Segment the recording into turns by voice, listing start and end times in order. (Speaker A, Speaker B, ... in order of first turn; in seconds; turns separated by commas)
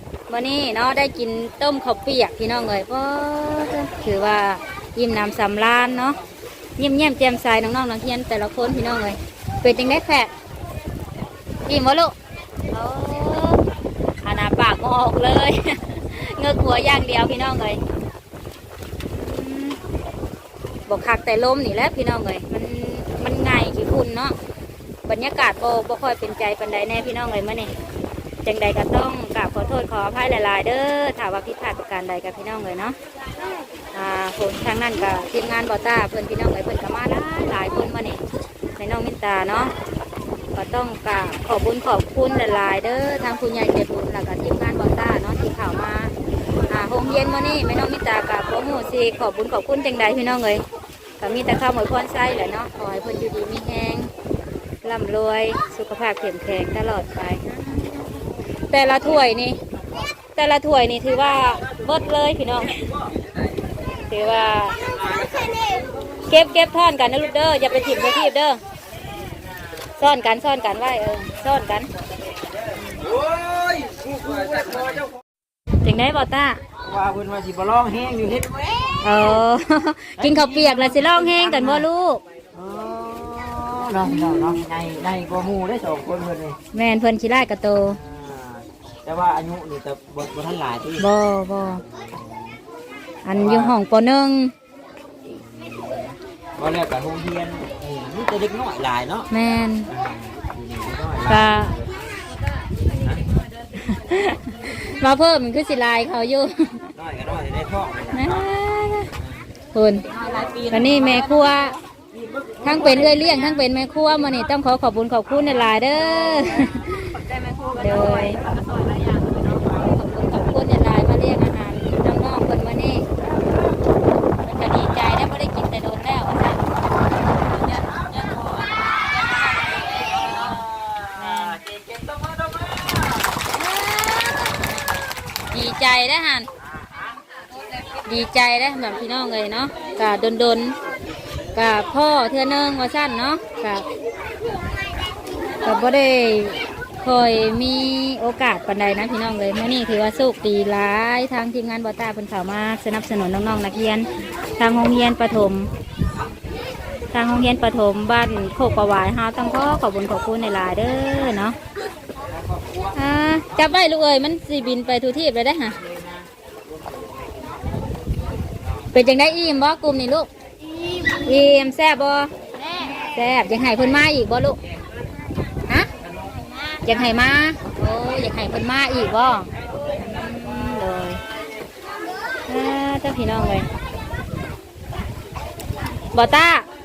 Speaker A: 0.3-6.2, Speaker A: 6.8-10.3, Speaker A: 11.7-12.1, Speaker A: 12.7-13.6, Speaker A: 14.2-17.8, Speaker A: 19.1-19.8, Speaker A: 20.9-24.4, Speaker A: 25.1-27.7, Speaker A: 28.4-33.0, Speaker A: 33.9-38.2, Speaker A: 38.8-39.7, Speaker A: 40.5-46.1, Speaker A: 46.7-50.6, Speaker A: 51.2-54.1, Speaker A: 54.8-58.1, Speaker A: 58.7-59.6, Speaker A: 60.3-62.9, Speaker B: 62.7-63.5, Speaker A: 64.1-64.8, Speaker B: 64.8-66.2, Speaker A: 66.2-68.6, Speaker A: 70.0-71.9, Speaker B: 71.9-75.2, Speaker A: 75.8-76.6, Speaker B: 76.8-79.0, Speaker A: 79.0-82.2, Speaker B: 80.2-81.8, Speaker B: 82.5-86.6, Speaker A: 84.0-84.6, Speaker A: 86.7-88.0, Speaker B: 87.9-91.0, Speaker A: 91.0-91.8, Speaker B: 91.7-92.6, Speaker A: 93.2-94.5, Speaker B: 93.3-93.7, Speaker B: 95.3-99.3, Speaker A: 99.3-99.9, Speaker B: 99.9-102.0, Speaker A: 101.2-101.7, Speaker B: 103.0-103.2, Speaker A: 103.7-106.8, Speaker B: 106.9-108.5, Speaker A: 108.1-109.1, Speaker B: 109.2-109.5, Speaker A: 109.7-110.0, Speaker C: 110.0-111.8, Speaker B: 110.3-110.8, Speaker A: 110.7-111.8, Speaker B: 112.1-113.1, Speaker A: 112.6-117.1, Speaker C: 112.7-113.6, Speaker B: 115.9-116.5, Speaker C: 116.2-119.8, Speaker A: 117.8-118.4, Speaker B: 117.9-118.3, Speaker A: 119.7-123.0, Speaker B: 123.2-123.8, Speaker A: 124.4-126.7, Speaker C: 127.3-130.6, Speaker B: 127.7-128.2, Speaker B: 130.0-133.4, Speaker A: 131.2-131.6, Speaker A: 133.5-134.5, Speaker A: 135.5-136.5, Speaker B: 136.6-137.2, Speaker C: 137.7-138.0, Speaker A: 138.0-140.8, Speaker A: 141.5-143.8, Speaker A: 145.6-155.7, Speaker A: 157.1-161.6, Speaker B: 162.3-163.6, Speaker A: 162.9-165.8, Speaker B: 165.8-167.8, Speaker B: 168.6-168.9, Speaker A: 168.9-170.3, Speaker A: 171.2-172.3, Speaker A: 173.1-174.6, Speaker B: 174.6-174.9, Speaker B: 176.0-176.4, Speaker A: 176.8-181.2, Speaker B: 179.6-180.9, Speaker A: 182.5-183.7, Speaker A: 186.1-186.7